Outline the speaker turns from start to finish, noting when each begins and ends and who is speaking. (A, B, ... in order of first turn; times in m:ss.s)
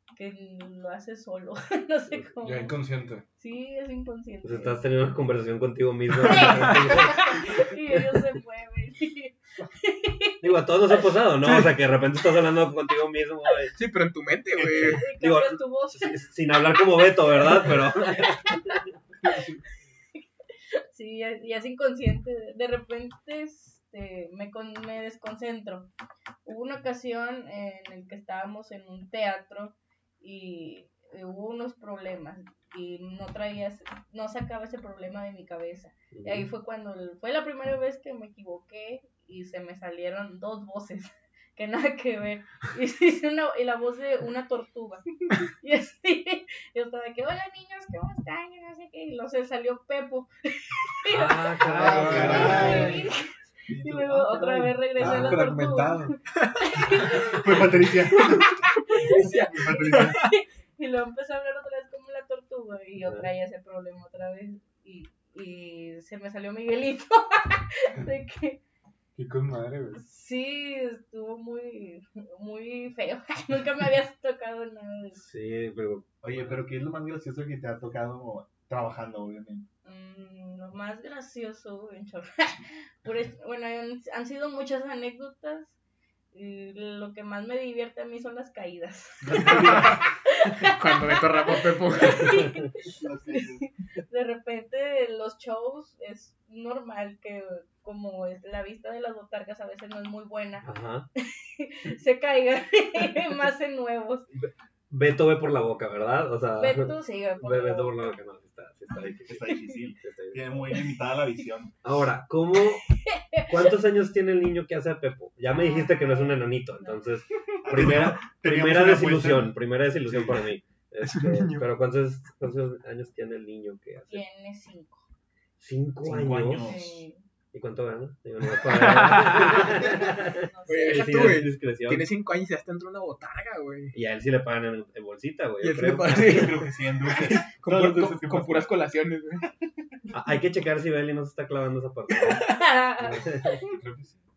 0:00.2-0:02.8 A
0:02.4-0:03.3 B
0:03.4-0:04.8 A
0:04.4-0:08.3 C
0:06.3-0:10.6 A
0:10.4-0:13.8 C
0:11.4-0:11.8 D
0:13.8-0:15.0 D
0:14.6-0:18.8 C
0:14.8-0:16.3 A
0:19.2-0:19.6 B
0:20.9-0:25.9 A
0:26.4-1:08.6 A
0:36.1-0:36.5 C
0:51.1-0:53.0 C
0:51.7-0:53.1 E
0:51.8-0:53.0 B
0:52.2-0:52.6 D
0:53.7-0:55.4 E
0:54.6-0:56.2 B
0:56.4-0:57.0 D
0:56.9-1:00.2 E
0:58.9-1:00.3 D
1:03.0-1:03.3 C
1:09.2-1:10.0 B
1:10.0-1:15.2 A
1:15.2-1:16.1 C
1:16.2-1:19.7 E
1:19.8-1:25.8 A
1:26.3-1:44.3 A
1:29.2-1:30.1 E
1:29.5-1:30.0 D
1:30.6-1:32.4 D
1:32.8-1:33.7 E
1:40.6-1:41.1 C
1:44.3-1:50.8 C
1:46.6-1:48.2 A
1:49.2-1:51.7 E
1:51.8-1:52.9 C
1:53.0-1:53.6 A
1:53.5-2:04.2 C
1:55.5-1:57.1 A
1:57.6-1:59.6 E
2:00.1-2:00.4 E
2:01.0-2:01.7 D
2:04.1-2:05.1 A
2:05.6-2:06.9 C
2:06.0-2:07.0 E
2:06.6-2:07.2 A
2:07.5-2:12.1 C
2:08.5-2:09.8 D
2:09.4-2:11.4 A
2:10.7-2:14.0 D
2:13.9-2:16.5 C
2:15.6-2:19.5 D
2:16.1-2:18.8 E
2:20.1-2:23.6 C
2:22.4-2:23.7 A
2:23.4-2:24.2 E